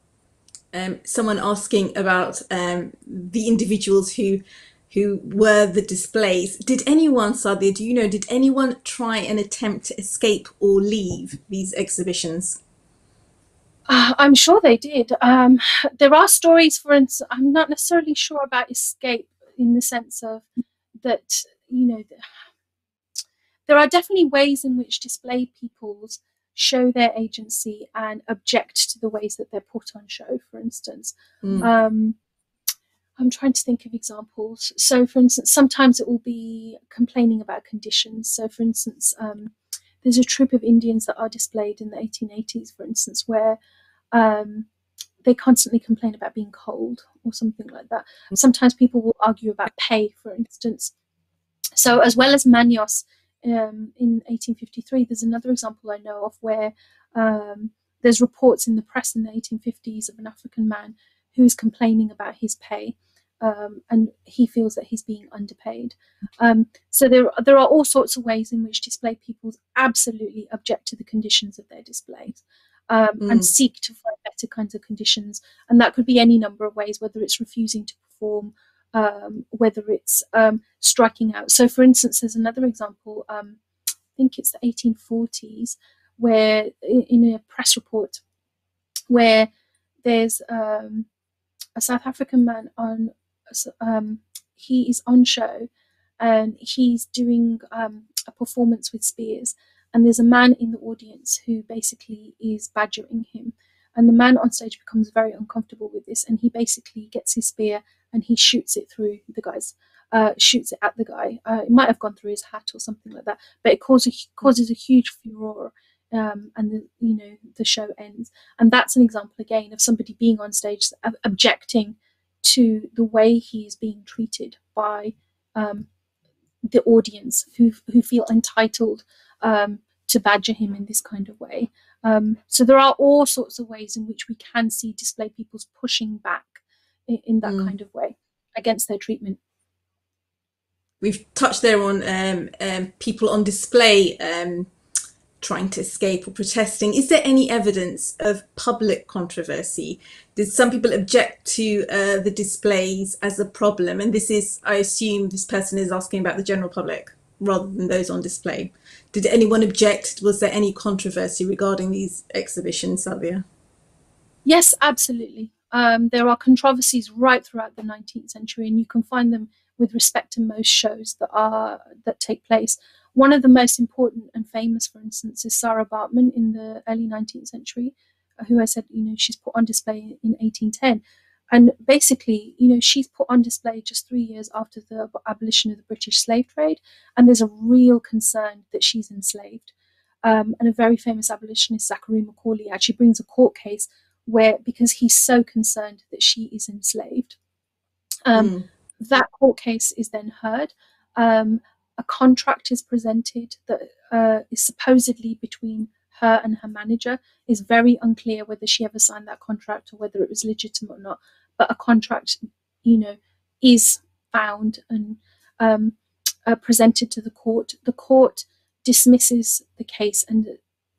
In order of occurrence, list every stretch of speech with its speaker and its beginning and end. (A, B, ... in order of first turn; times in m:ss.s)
0:00.7-0:12.6 A
0:13.9-0:20.5 B
0:21.0-0:22.4 B
0:23.7-0:32.2 B
0:31.4-0:31.7 A
0:33.2-0:43.6 B
0:44.1-0:44.7 B
0:45.2-0:50.9 B
0:51.8-1:23.6 B
1:13.2-1:13.5 A
1:24.2-1:28.2 B
1:29.1-1:29.5 B
1:30.0-1:31.1 B
1:31.8-1:35.7 B
1:36.2-2:05.9 B
2:06.7-2:19.4 B
2:17.4-2:17.7 A
2:21.0-2:24.7 A
2:25.4-2:43.4 A
2:44.4-3:01.0 B
3:01.5-3:09.7 B
3:10.2-3:17.4 B
3:18.3-3:36.0 B
3:18.4-3:18.7 A
3:36.5-3:40.6 B